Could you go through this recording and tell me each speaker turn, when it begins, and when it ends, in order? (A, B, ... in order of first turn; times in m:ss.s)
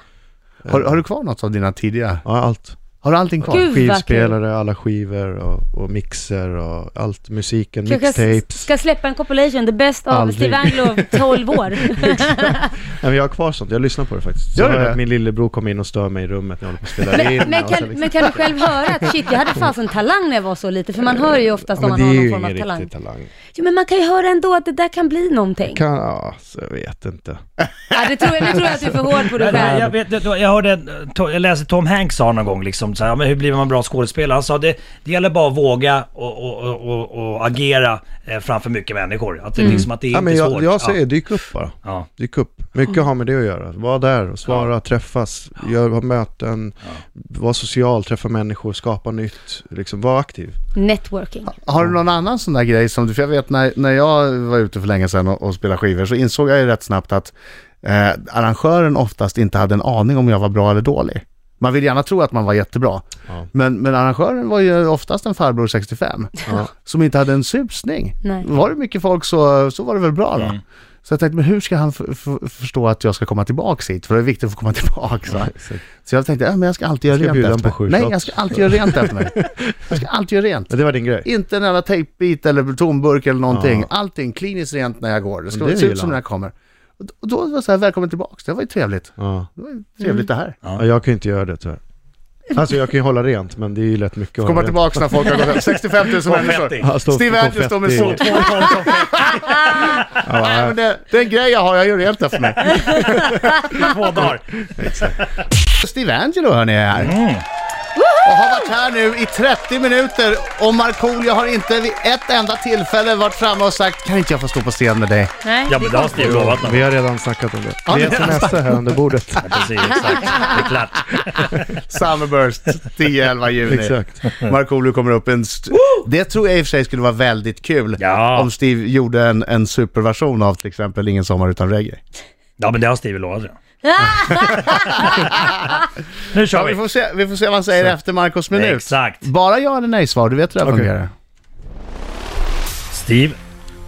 0:00.6-0:01.0 A
0:00.7-0:02.2 B
0:02.2-0:02.8 A
0:03.0-0:03.7 B
0:03.4-0:08.7 A
0:03.5-0:04.4 C
0:07.9-0:12.7 C
0:10.1-0:11.0 B
0:12.9-0:19.2 A
0:14.6-0:15.0 B
0:17.1-0:22.9 C
0:21.1-0:23.3 A
0:23.5-0:25.8 C
0:25.6-0:27.4 A
0:27.9-0:29.9 C
0:29.3-0:41.2 D
0:29.5-0:30.0 A
0:39.6-0:39.9 C
0:39.6-0:50.6 A
0:50.8-0:51.5 C
0:51.5-1:30.6 B
1:15.5-1:15.8 A
1:17.1-1:20.0 A
1:20.7-1:21.3 A
1:23.5-1:23.9 A
1:25.5-1:26.2 A
1:29.2-1:29.5 A
1:30.7-1:31.8 A
1:32.5-1:35.6 A
1:34.4-1:43.3 B
1:36.2-1:36.9 D
1:36.8-1:38.2 A
1:37.9-1:39.4 D
1:40.2-1:40.8 A
1:43.0-1:43.6 A
1:43.6-1:45.3 D
1:44.2-1:45.2 A
1:45.7-1:47.2 B
1:47.0-1:47.4 D
1:48.2-1:55.3 B
1:55.4-1:56.4 C
1:55.7-1:56.9 D
1:56.1-1:59.6 A
1:57.9-1:58.8 B
1:59.4-2:01.5 D
2:01.5-2:12.0 B
2:03.7-2:04.2 A
2:04.2-2:04.5 D
2:08.0-2:08.5 D
2:12.6-2:13.6 D
2:13.8-2:15.3 C
2:14.2-2:15.7 B
2:16.3-2:16.8 D
2:16.5-2:21.1 B
2:18.5-2:19.3 D
2:20.6-2:20.9 A
2:22.9-2:23.4 D